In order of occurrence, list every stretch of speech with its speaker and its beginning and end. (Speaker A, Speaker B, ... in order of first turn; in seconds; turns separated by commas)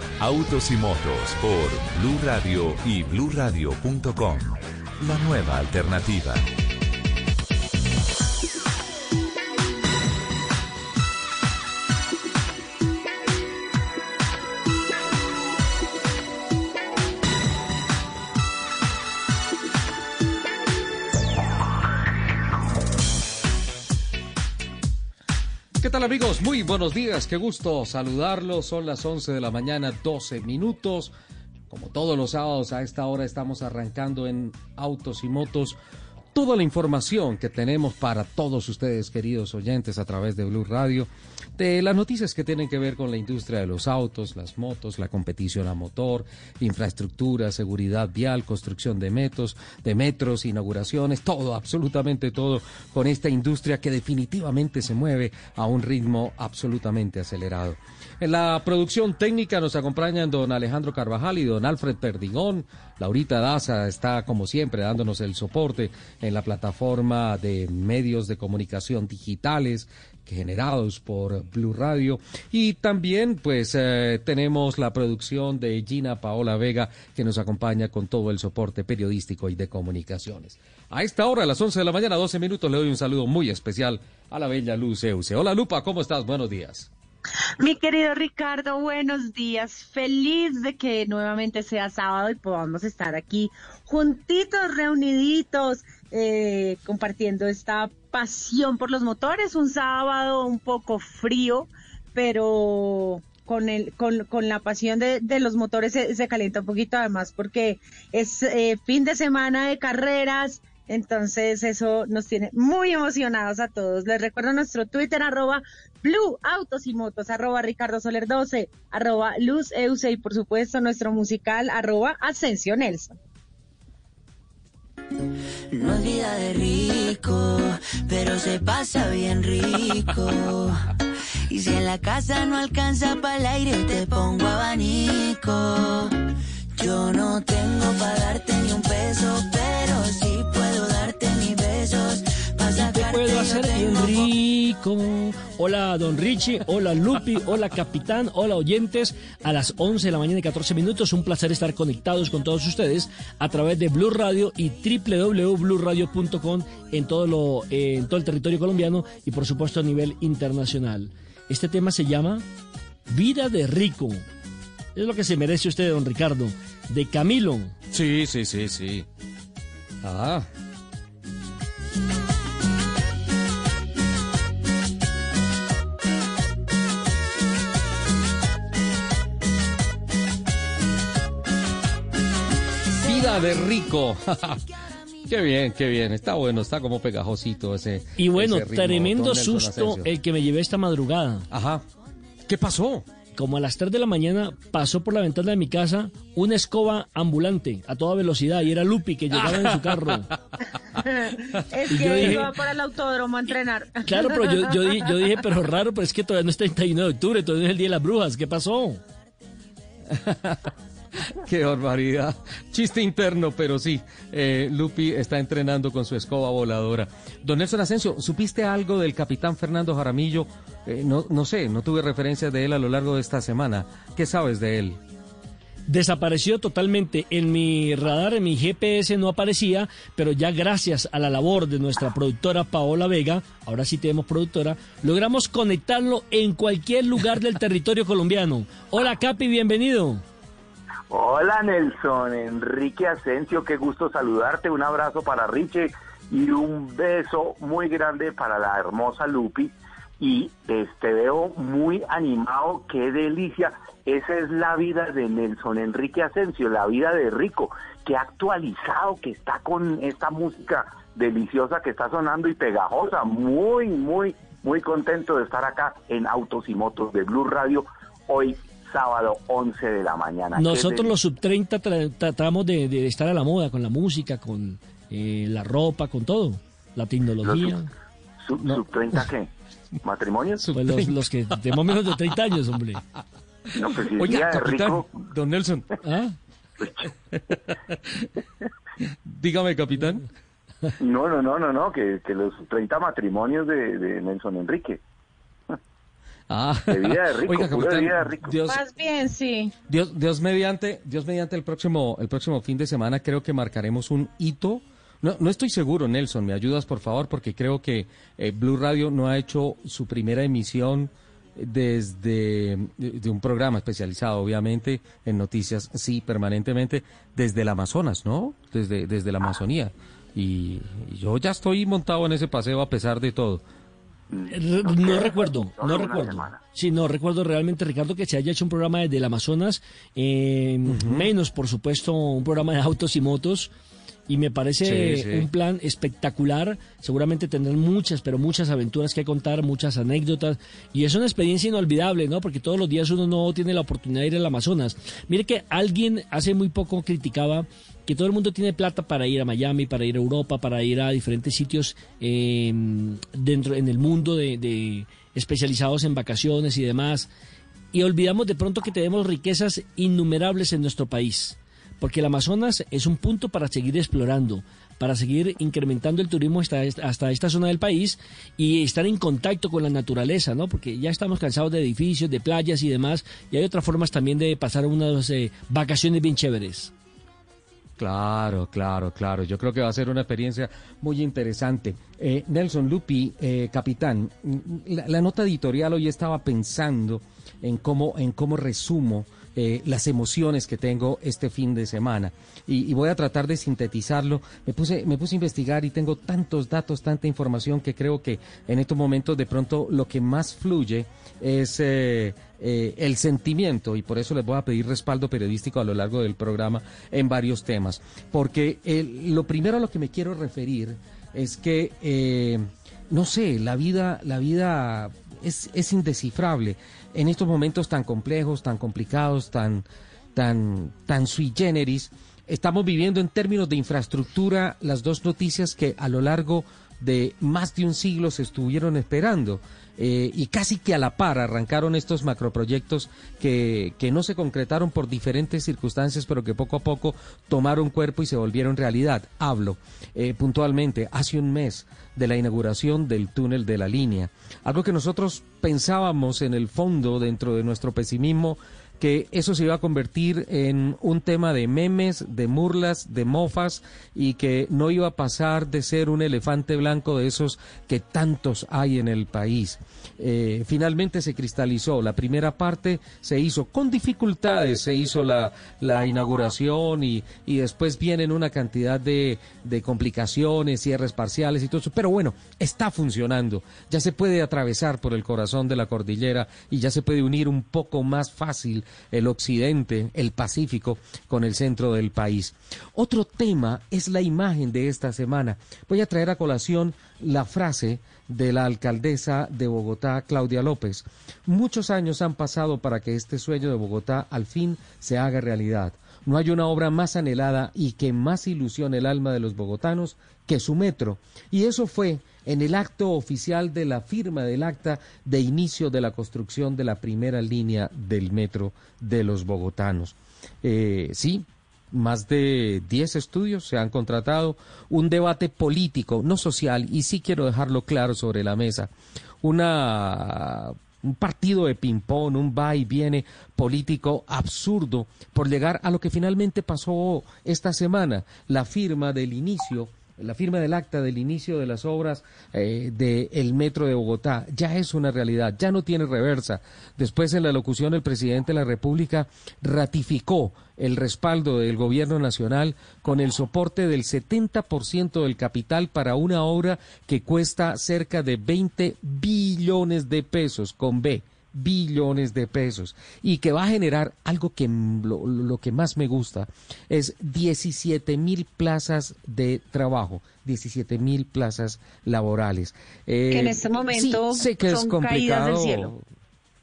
Speaker A: 0.2-6.4, Speaker B: 25.8-31.1, Speaker B: 31.7-35.8, Speaker B: 36.3-86.9, Speaker C: 87.6-123.1, Speaker D: 125.7-130.9, Speaker D: 131.5-136.1, Speaker D: 136.8-144.4, Speaker E: 142.8-162.4, Speaker E: 163.1-164.2, Speaker E: 164.9-167.7, Speaker B: 167.9-169.1, Speaker B: 170.0-170.5, Speaker B: 183.0-184.6, Speaker B: 185.3-190.1, Speaker E: 188.2-191.4, Speaker B: 191.5-191.8, Speaker B: 192.5-193.1, Speaker E: 193.3-200.3, Speaker B: 199.5-200.1, Speaker C: 201.0-204.7, Speaker E: 201.9-202.5, Speaker B: 202.1-202.4, Speaker E: 204.1-209.0, Speaker B: 210.1-210.7, Speaker B: 211.3-225.0, Speaker E: 225.9-240.2, Speaker F: 241.1-271.1, Speaker E: 270.6-277.9, Speaker F: 277.4-277.8, Speaker F: 278.4-279.5, Speaker F: 280.0-280.6, Speaker B: 280.6-281.2, Speaker E: 280.7-283.0, Speaker F: 283.7-285.1, Speaker B: 284.0-285.9, Speaker E: 286.0-286.3, Speaker F: 286.8-287.1, Speaker B: 289.3-290.2, Speaker F: 291.0-295.0, Speaker B: 296.5-298.8, Speaker F: 296.9-298.5, Speaker C: 298.6-299.7, Speaker B: 299.9-323.6, Speaker F: 324.3-326.6, Speaker E: 324.5-333.7, Speaker B: 330.9-331.3, Speaker E: 334.3-357.3, Speaker B: 334.8-335.5, Speaker E: 357.9-376.9, Speaker B: 378.0-518.9, Speaker B: 519.4-566.0, Speaker C: 563.3-565.9